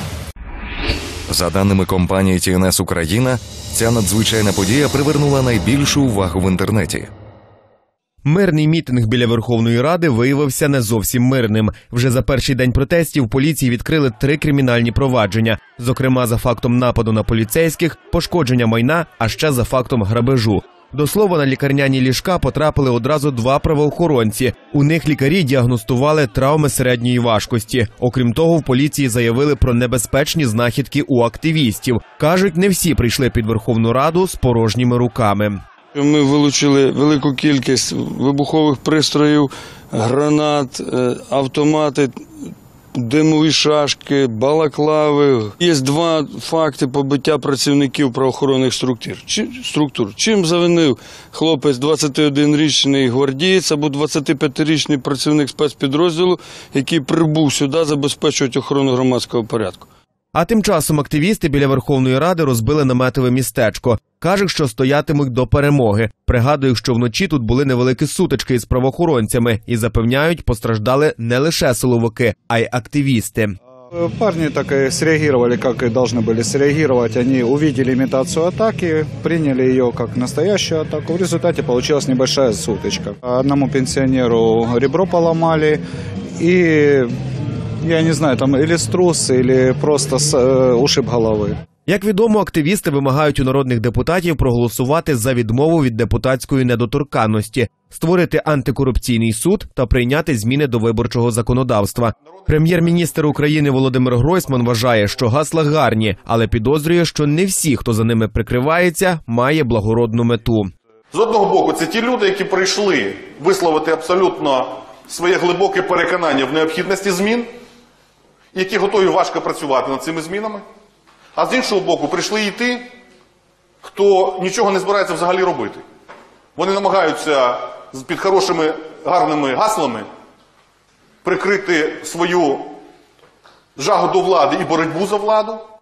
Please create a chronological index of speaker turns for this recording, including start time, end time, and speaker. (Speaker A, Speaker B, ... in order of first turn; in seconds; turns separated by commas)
Speaker A: 1.3-7.1, Speaker B: 8.2-35.6, Speaker C: 35.9-42.1, Speaker C: 42.9-59.9, Speaker B: 60.3-73.5, Speaker D: 73.9-85.8, Speaker D: 86.4-87.1, Speaker D: 87.8-91.6, Speaker B: 91.9-110.7, Speaker E: 111.1-117.5, Speaker E: 118.5-120.6, Speaker E: 121.3-122.9, Speaker E: 123.8-125.8, Speaker E: 126.6-130.1, Speaker E: 131.2-132.8, Speaker E: 133.8-135.6